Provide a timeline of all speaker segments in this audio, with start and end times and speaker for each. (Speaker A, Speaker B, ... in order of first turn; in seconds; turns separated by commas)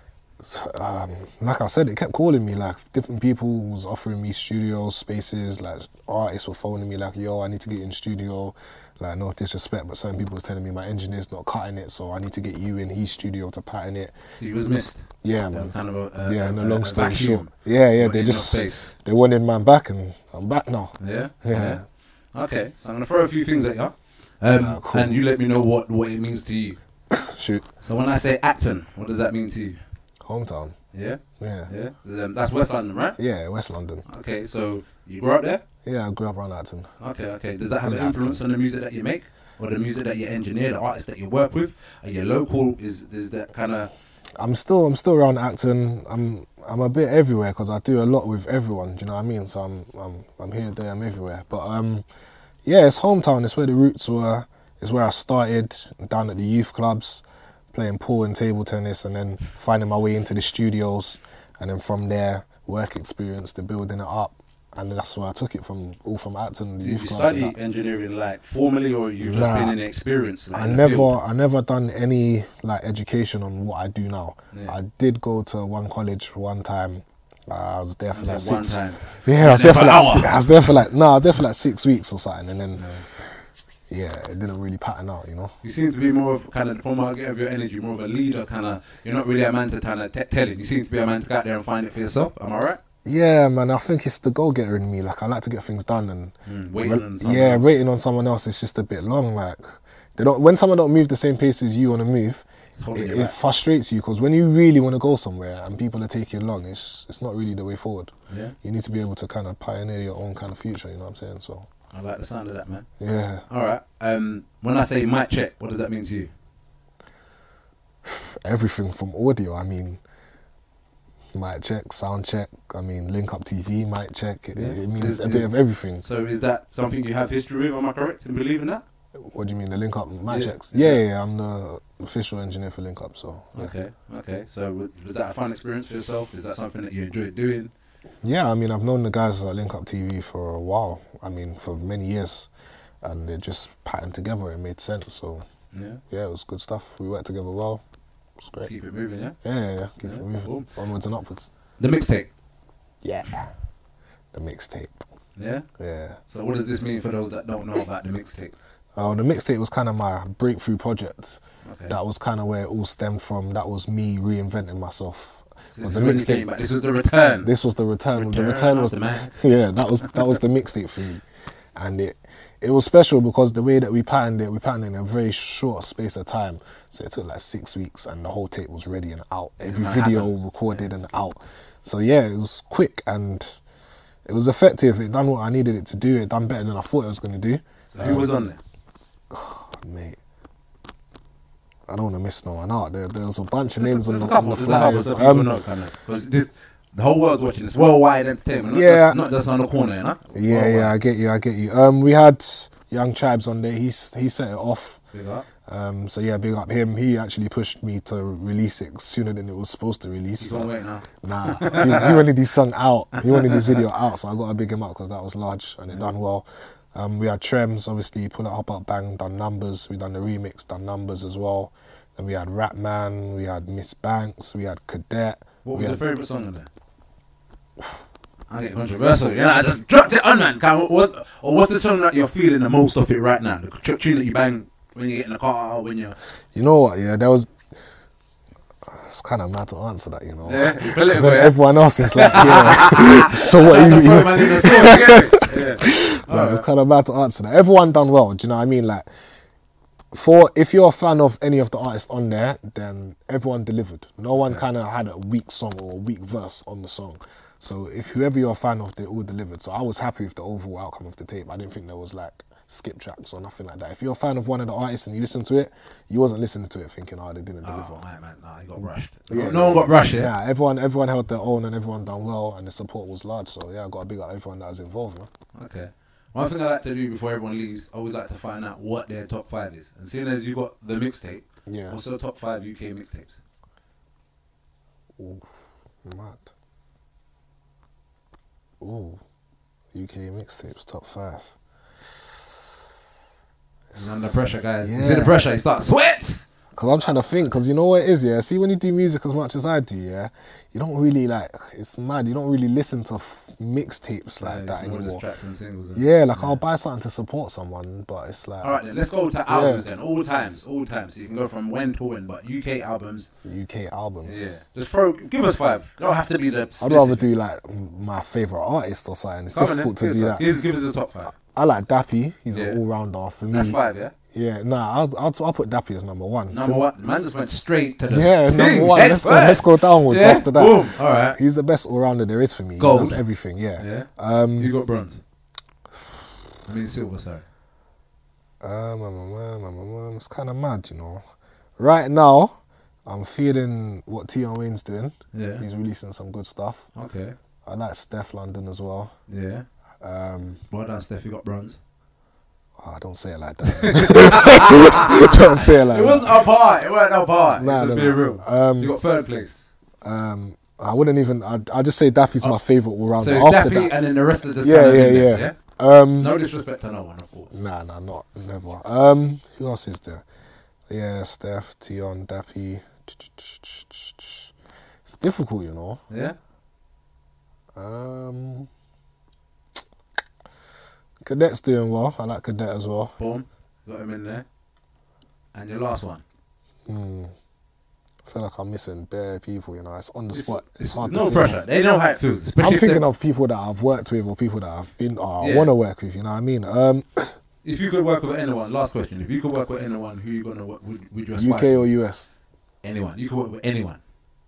Speaker A: 0.4-14.1, Speaker B: 14.3-18.9, Speaker A: 15.2-21.8, Speaker B: 21.0-21.8, Speaker B: 22.3-26.8, Speaker A: 24.5-25.2, Speaker A: 27.1-27.7, Speaker B: 27.8-29.8, Speaker A: 30.2-30.8, Speaker B: 30.9-33.2, Speaker A: 31.4-31.7, Speaker A: 33.1-34.0, Speaker B: 34.0-35.6, Speaker A: 35.8-36.9, Speaker B: 37.0-43.9, Speaker A: 37.8-38.4, Speaker A: 44.4-52.0, Speaker A: 52.6-67.5, Speaker B: 66.8-71.1, Speaker A: 69.2-69.8, Speaker A: 70.5-83.3, Speaker B: 78.1-80.8, Speaker B: 82.8-83.0, Speaker A: 83.9-85.5, Speaker B: 85.6-92.8, Speaker A: 93.0-111.7, Speaker B: 96.4-97.8, Speaker B: 102.8-103.4, Speaker B: 108.3-108.5, Speaker B: 111.9-112.9, Speaker A: 113.0-113.5, Speaker B: 113.5-116.3, Speaker A: 118.0-120.0, Speaker A: 121.3-126.0, Speaker B: 124.5-128.8, Speaker A: 129.2-133.7, Speaker B: 130.3-131.0, Speaker B: 133.5-137.7, Speaker A: 138.2-142.5, Speaker A: 143.0-145.4, Speaker B: 145.7-146.0, Speaker A: 146.1-147.8, Speaker A: 148.4-148.7, Speaker B: 148.6-149.4, Speaker A: 149.4-151.5, Speaker B: 150.0-150.7, Speaker B: 151.8-152.3, Speaker A: 153.0-153.5, Speaker A: 154.3-155.0, Speaker B: 155.3-155.7, Speaker A: 155.8-156.2, Speaker B: 156.3-158.5, Speaker A: 158.9-166.5, Speaker B: 161.6-162.0, Speaker B: 165.7-167.5, Speaker A: 167.4-171.2, Speaker B: 168.1-169.4, Speaker A: 171.8-183.6, Speaker B: 179.6-180.3, Speaker A: 184.2-188.3, Speaker B: 187.9-188.6, Speaker A: 189.3-190.2, Speaker A: 191.9-195.6, Speaker B: 193.8-201.0, Speaker A: 198.7-199.2, Speaker A: 200.3-205.0, Speaker B: 205.1-205.5, Speaker A: 205.7-226.0, Speaker B: 210.4-212.2, Speaker B: 213.2-213.8, Speaker B: 225.6-226.7, Speaker B: 228.5-236.2, Speaker A: 236.5-237.5, Speaker A: 238.9-249.1, Speaker B: 240.4-246.7, Speaker A: 250.1-268.0, Speaker B: 254.3-254.6, Speaker B: 267.6-270.3, Speaker A: 268.8-275.3, Speaker B: 275.5-283.4, Speaker A: 281.6-282.0, Speaker A: 285.2-285.5, Speaker A: 286.0-286.5, Speaker A: 288.8-289.2, Speaker A: 289.9-291.5, Speaker A: 293.9-295.4, Speaker B: 293.9-296.5, Speaker A: 296.7-305.2, Speaker B: 304.4-306.6, Speaker A: 305.9-308.8, Speaker B: 308.6-313.3, Speaker A: 309.4-309.9, Speaker A: 313.4-314.6, Speaker B: 314.2-317.3, Speaker A: 316.8-320.6, Speaker B: 319.5-321.3, Speaker A: 321.4-323.8, Speaker B: 322.5-322.8, Speaker B: 323.5-324.1, Speaker A: 324.3-326.8, Speaker B: 326.5-331.4, Speaker A: 328.1-334.8, Speaker B: 332.8-333.2, Speaker B: 333.7-335.2, Speaker B: 336.6-337.4, Speaker A: 338.6-341.2, Speaker A: 341.8-346.9, Speaker B: 345.3-345.7, Speaker B: 346.9-347.4, Speaker A: 347.6-349.1, Speaker B: 349.3-349.6, Speaker A: 350.0-350.6, Speaker B: 350.7-351.8, Speaker A: 352.8-356.6, Speaker B: 353.6-359.6, Speaker A: 357.5-359.0, Speaker A: 360.0-366.4, Speaker B: 363.2-365.6, Speaker B: 366.1-367.6, Speaker A: 367.5-370.2, Speaker A: 370.9-374.5, Speaker A: 375.0-376.0, Speaker B: 376.1-376.4, Speaker A: 377.8-378.7, Speaker A: 381.2-383.2, Speaker B: 383.2-384.4, Speaker B: 385.5-386.2, Speaker A: 386.9-387.3, Speaker A: 388.2-391.6, Speaker B: 390.3-393.0, Speaker A: 392.6-397.3, Speaker B: 395.4-395.7, Speaker B: 397.6-401.9, Speaker A: 401.3-402.3, Speaker B: 402.8-404.0